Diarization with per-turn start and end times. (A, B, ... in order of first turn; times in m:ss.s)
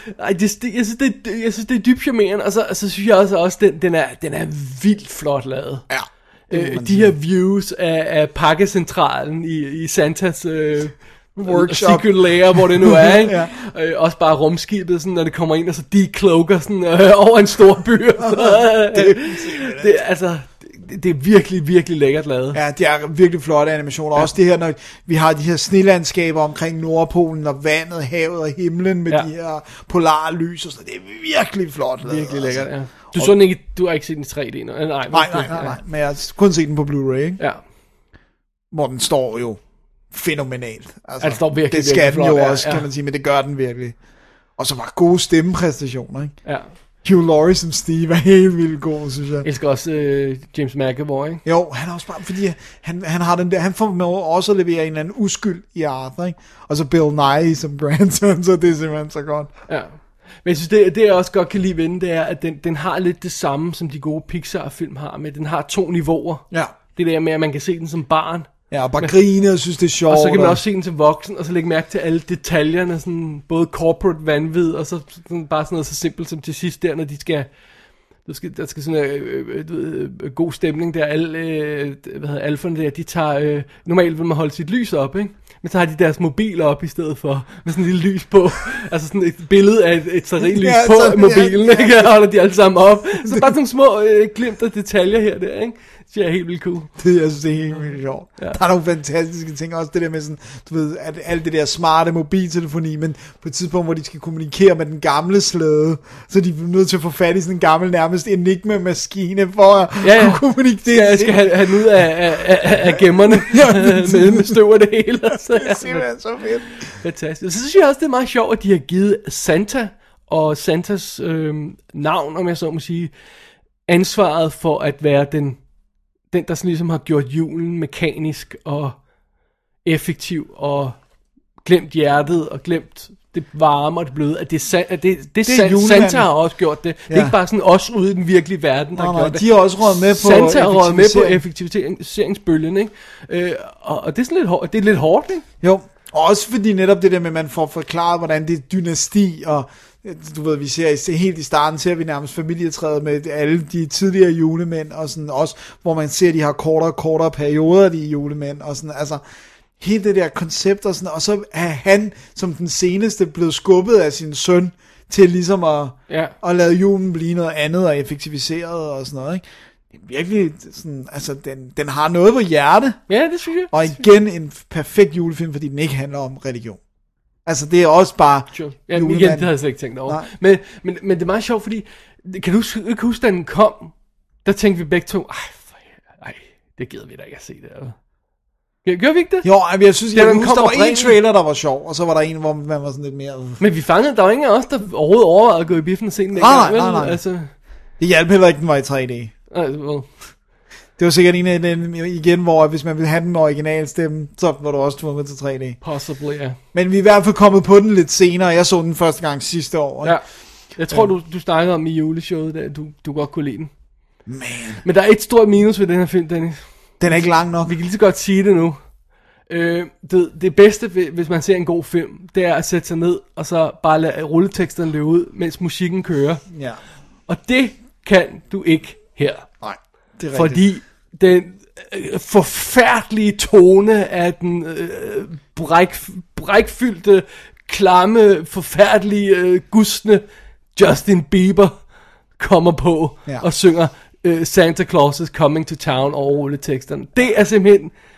0:00.2-0:05.9 A
0:05.9-0:07.1 B
0:06.5-0:22.6 A
0:11.3-0:13.5 B
0:18.2-0:20.0 B
0:22.5-0:33.3 B
0:32.0-0:35.8 A
0:35.1-0:37.4 B
0:37.4-0:37.6 A
0:38.7-0:44.0 B
0:41.2-0:42.9 A
0:44.5-0:49.5 B
0:46.4-0:46.7 A
0:49.4-0:51.4 A
0:51.4-0:59.5 B
0:59.7-1:09.2 A
1:08.7-1:10.6 B
1:10.1-1:36.9 A
1:30.4-1:32.6 B
1:33.2-1:33.5 B
1:37.0-1:52.1 B
1:50.0-1:56.2 A
1:53.0-1:54.6 B
1:55.3-1:56.9 B
1:57.0-2:03.1 A
2:03.9-2:05.6 A
2:06.2-2:09.1 A
2:09.8-2:11.1 A
2:11.6-2:25.4 A
2:15.4-2:17.3 B
2:18.9-2:21.4 B
2:25.6-2:39.2 B
2:39.8-2:56.8 B
2:46.1-2:46.3 A
2:53.1-2:54.0 A
2:57.4-3:00.3 B
2:58.5-3:08.0 A
3:08.8-3:11.2 A
3:09.4-3:13.6 B
3:13.6-3:17.5 A
3:16.3-3:19.3 B
3:19.5-3:20.3 A
3:21.0-3:25.8 B
3:25.8-3:26.6 A
3:26.7-3:31.1 B
3:30.0-3:33.7 A
3:34.2-3:34.8 B
3:34.8-3:46.5 A
3:37.0-3:37.7 B
3:46.5-3:46.8 B
3:47.2-3:49.5 A
3:49.6-3:50.7 B
3:50.3-4:07.9 A